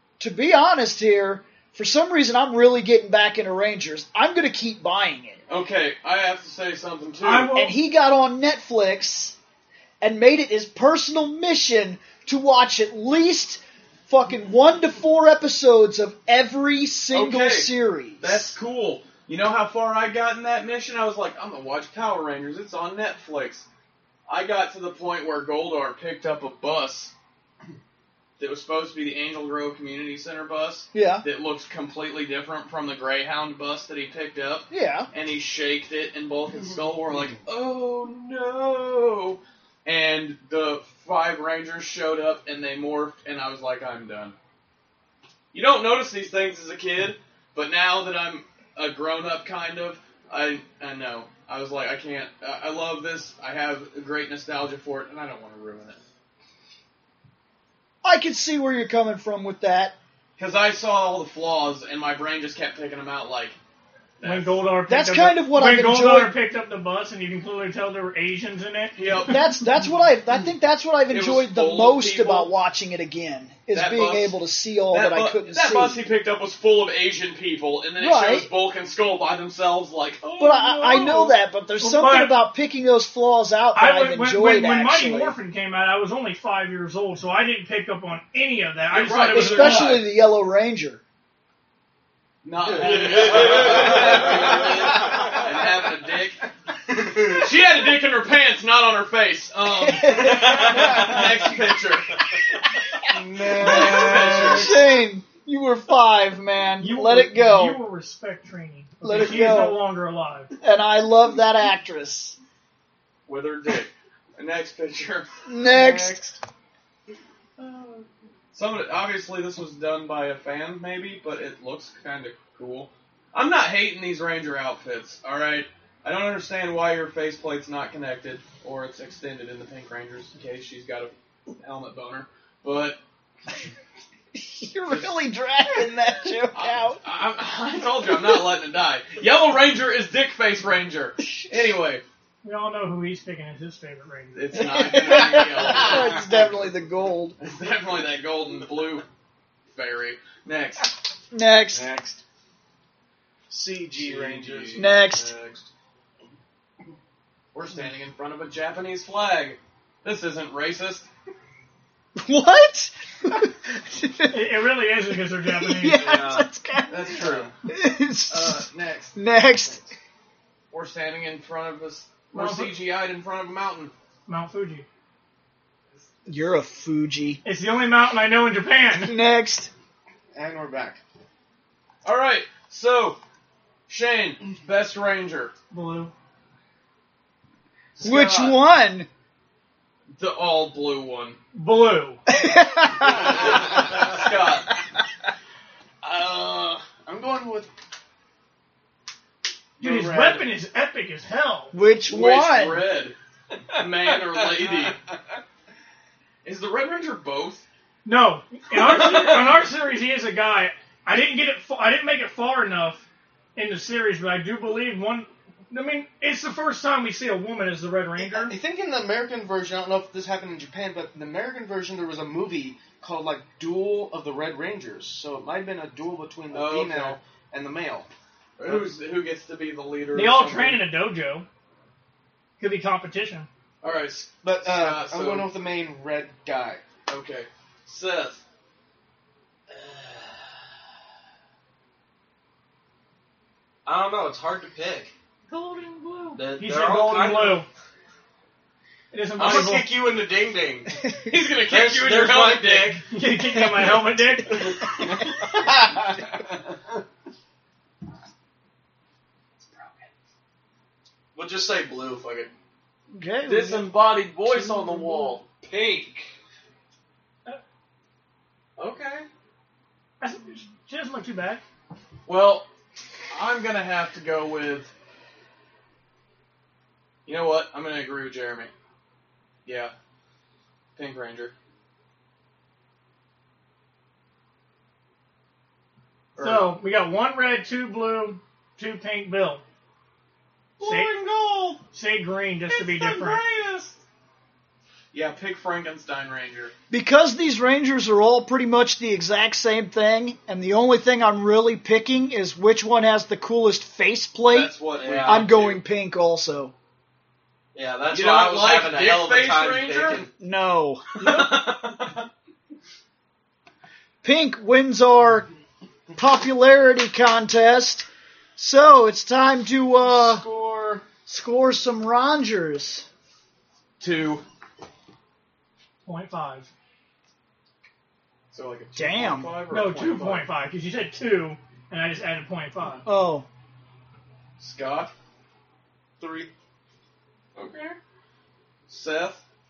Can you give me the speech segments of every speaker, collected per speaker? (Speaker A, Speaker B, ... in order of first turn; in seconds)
Speaker A: 0.2-5.4, 7.6-9.3, 10.0-18.5, 30.9-31.2, 34.7-35.1, 58.0-59.9, 64.9-66.3, 69.3-76.0, 78.0-78.5, 80.4-85.3, 89.3-91.0, 99.8-101.2, 103.7-107.8, 109.0-109.8, 110.6-112.4, 115.5-116.2, 134.3-137.0, 144.5-147.3, 151.3-151.8, 154.8-155.3, 162.2-164.5, 165.4-167.2, 167.7-169.8, 176.2-177.4, 178.9-179.7, 188.0-189.1, 192.3-193.5, 201.7-202.8, 263.1-263.9, 264.5-265.3, 296.9-306.7, 310.4-311.1, 314.2-315.5, 316.2-320.4, 321.3-323.1, 328.9-329.6, 333.0-333.4
Speaker B: 5.5-7.5, 17.1-23.6, 24.3-27.1, 28.4-44.4, 45.5-56.0, 60.4-63.6, 64.2-64.6, 69.0-69.5, 71.1-72.5, 73.7-74.4, 74.9-81.1, 88.9-90.0, 92.4-96.4, 97.3-102.2, 103.5-104.8, 113.3-115.3, 117.6-133.0, 136.5-142.0, 144.3-146.2, 147.4-149.1, 149.7-150.9, 153.9-155.3, 157.5-161.1, 166.9-167.5, 168.3-169.8, 170.7-173.9, 182.0-183.2, 183.9-185.5, 188.0-188.6, 190.2-191.4, 193.1-194.7, 196.0-196.8, 202.1-203.2, 203.7-205.0, 206.4-207.6, 208.7-209.4, 226.5-227.2, 228.6-230.9, 233.8-235.5, 237.1-238.4, 251.3-253.0, 263.4-265.5, 268.8-269.3, 272.2-272.7, 273.3-274.9, 277.2-278.7, 279.6-279.9, 280.9-281.5, 286.4-286.7, 290.8-291.8, 292.7-294.0, 295.1-296.7, 304.5-305.8, 308.1-310.3, 311.2-312.2, 324.0-324.4, 328.5-330.4, 334.6-335.1, 337.6-338.0, 338.9-339.4
Speaker C: 7.2-7.8, 64.2-69.0, 80.9-82.5, 83.7-90.1, 106.8-110.5, 142.4-144.4, 164.3-166.0, 172.3-172.7, 174.3-174.8, 177.4-179.2, 185.7-186.1, 191.5-192.2, 199.8-201.7, 208.0-218.6, 230.1-231.4, 232.6-233.5, 245.5-247.7, 249.1-250.0, 253.0-254.7, 270.2-271.6, 286.4-289.6, 290.8-291.1, 291.8-293.4, 311.2-311.6, 326.0-326.7, 329.7-333.0
Speaker D: 92.7-95.4, 100.2-101.1, 165.9-166.5, 243.8-245.1, 246.3-247.6, 249.4-250.9, 251.6-253.0, 254.5-255.2, 261.3-262.5, 265.5-266.3, 304.9-305.5, 307.7-310.3
Speaker E: 93.8-95.2, 103.1-104.9, 115.7-116.4, 145.7-146.3, 151.7-152.2, 153.5-155.7, 180.3-181.0, 197.0-197.7, 199.8-200.4, 218.2-228.1, 234.4-236.8, 255.2-256.0, 320.0-321.0, 336.2-336.5